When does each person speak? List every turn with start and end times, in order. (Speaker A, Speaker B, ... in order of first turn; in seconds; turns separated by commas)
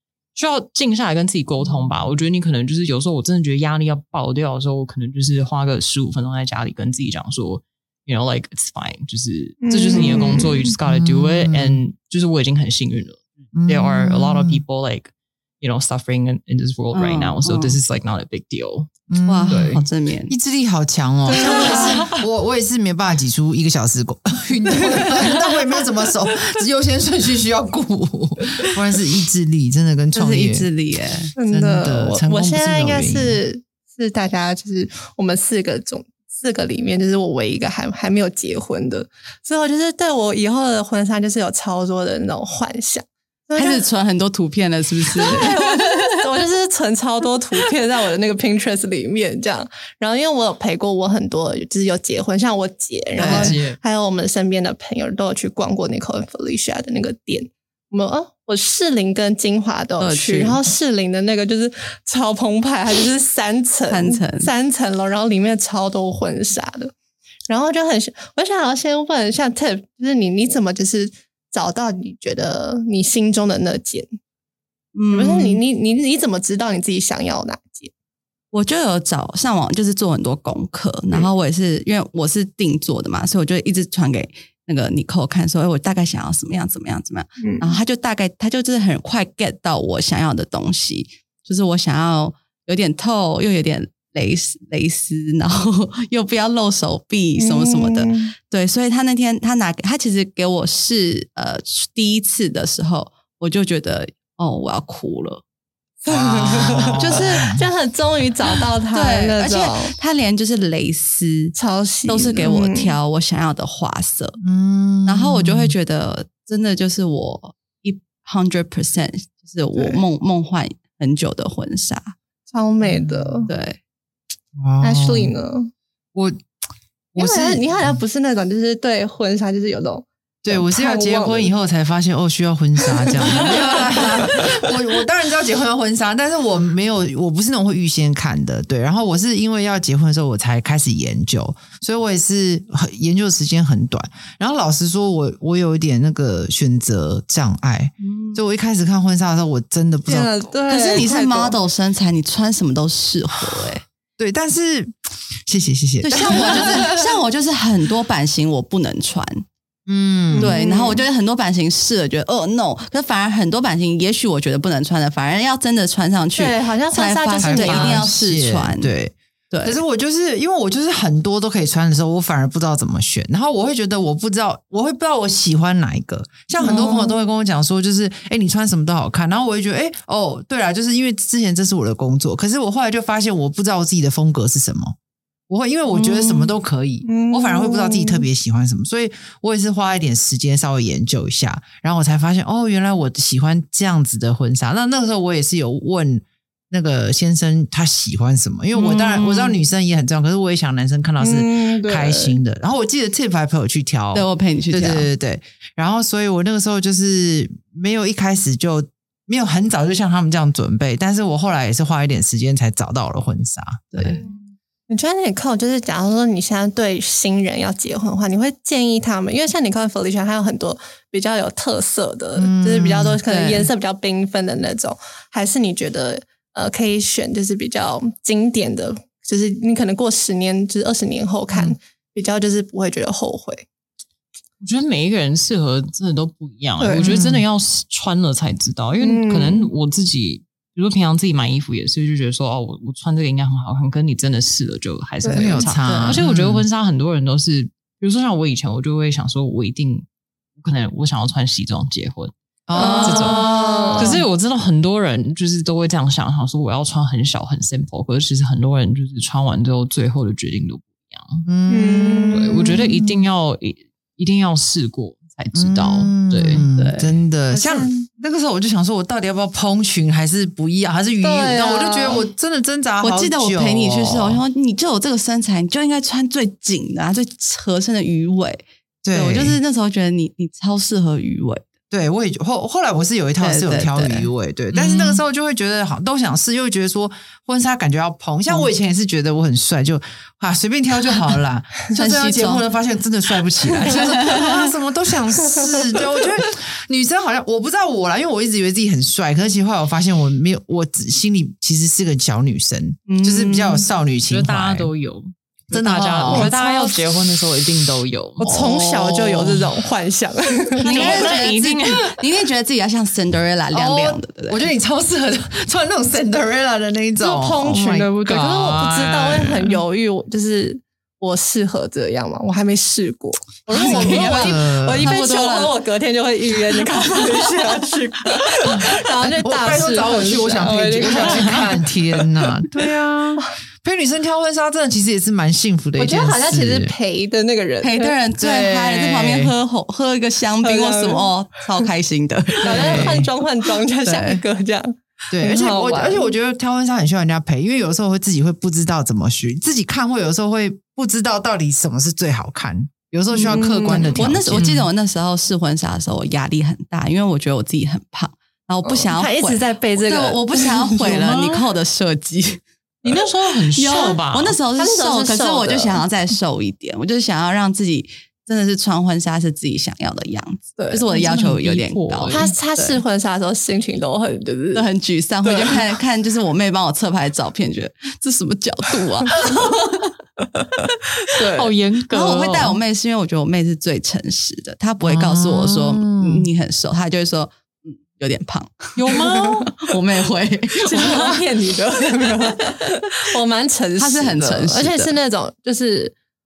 Speaker A: 0.3-18.9, Speaker B: 9.6-10.7, Speaker C: 10.8-11.8, Speaker C: 13.5-14.6, Speaker D: 16.9-17.8, Speaker C: 19.1-30.7, Speaker D: 19.2-20.3, Speaker A: 19.5-19.8, Speaker B: 21.3-22.1, Speaker D: 24.9-25.3, Speaker D: 30.1-31.3, Speaker B: 31.4-43.8, Speaker C: 31.4-33.4, Speaker D: 43.5-46.0, Speaker B: 45.1-66.9, Speaker D: 53.1-53.6, Speaker A: 53.2-53.8, Speaker D: 60.0-60.6, Speaker D: 63.9-64.5, Speaker B: 67.5-74.1, Speaker D: 74.9-75.6, Speaker B: 75.1-77.9, Speaker D: 78.5-105.4, Speaker B: 87.4-87.8, Speaker B: 97.4-98.3, Speaker B: 106.0-110.0, Speaker C: 106.1-107.6, Speaker D: 107.0-107.5, Speaker D: 108.9-111.5, Speaker B: 111.5-112.9, Speaker D: 112.1-114.4, Speaker C: 114.4-115.7, Speaker D: 115.0-122.2, Speaker B: 122.5-123.5, Speaker C: 122.8-123.5, Speaker D: 123.5-123.8, Speaker C: 124.6-125.3, Speaker B: 124.8-125.7, Speaker C: 127.1-128.0, Speaker B: 127.2-131.5, Speaker C: 130.4-150.3, Speaker B: 132.9-134.6, Speaker D: 148.0-148.4, Speaker B: 150.1-151.6, Speaker D: 150.7-153.8, Speaker C: 154.2-157.0, Speaker D: 156.0-159.4, Speaker C: 159.9-160.6, Speaker B: 160.3-161.0, Speaker D: 160.4-168.9, Speaker B: 166.3-168.1, Speaker C: 167.4-184.9, Speaker D: 169.5-169.8, Speaker B: 176.6-177.1, Speaker C: 185.5-214.2, Speaker D: 185.9-186.5, Speaker B: 187.0-188.2, Speaker D: 198.7-199.6, Speaker B: 201.2-202.4, Speaker D: 204.1-205.1, Speaker D: 213.9-214.2, Speaker B: 214.2-233.6, Speaker C: 222.3-223.2, Speaker D: 223.2-223.7, Speaker C: 231.5-231.8, Speaker A: 234.6-250.1, Speaker B: 236.8-237.3, Speaker C: 237.0-237.4, Speaker B: 239.0-239.7, Speaker B: 245.2-245.6, Speaker C: 245.3-246.6, Speaker D: 245.6-246.2, Speaker A: 250.6-261.4, Speaker C: 252.7-254.2, Speaker B: 252.7-254.2, Speaker C: 261.4-263.3, Speaker B: 261.7-262.8, Speaker A: 262.3-266.6, Speaker C: 265.5-274.4, Speaker D: 266.7-267.2, Speaker B: 267.5-268.1, Speaker B: 271.2-272.2, Speaker D: 273.0-281.6, Speaker C: 279.0-279.6, Speaker C: 281.9-304.9, Speaker D: 283.4-284.3, Speaker A: 284.7-285.2, Speaker D: 291.9-292.6, Speaker D: 293.8-294.5, Speaker D: 303.1-303.9, Speaker A: 304.3-308.5, Speaker C: 305.7-306.5, Speaker B: 306.3-307.0, Speaker B: 308.4-311.4, Speaker C: 308.9-309.6, Speaker D: 310.8-314.7, Speaker A: 310.8-312.2, Speaker C: 313.7-318.1, Speaker B: 317.2-331.9, Speaker A: 318.2-319.7, Speaker D: 323.7-325.8, Speaker C: 323.8-325.1, Speaker C: 329.2-336.9, Speaker A: 331.2-331.6, Speaker B: 336.0-338.1, Speaker D: 337.8-343.3, Speaker C: 338.4-339.5, Speaker B: 340.6-341.3, Speaker B: 342.6-346.3, Speaker C: 342.6-343.3, Speaker D: 344.0-344.4, Speaker C: 345.3-354.7, Speaker B: 353.3-354.3, Speaker D: 354.1-362.6, Speaker A: 354.6-354.9, Speaker B: 358.8-361.2, Speaker A: 361.0-361.4, Speaker A: 363.0-364.6, Speaker D: 363.7-373.0, Speaker B: 364.8-366.0, Speaker B: 370.8-371.4, Speaker A: 371.1-372.5, Speaker B: 372.3-374.8, Speaker D: 374.7-380.1, Speaker B: 375.4-375.9, Speaker B: 381.3-381.7, Speaker A: 381.5-382.8, Speaker D: 382.1-389.1, Speaker C: 385.0-386.5, Speaker A: 388.9-389.7, Speaker B: 389.1-389.7, Speaker D: 389.8-391.4, Speaker B: 390.8-396.1, Speaker D: 394.0-395.1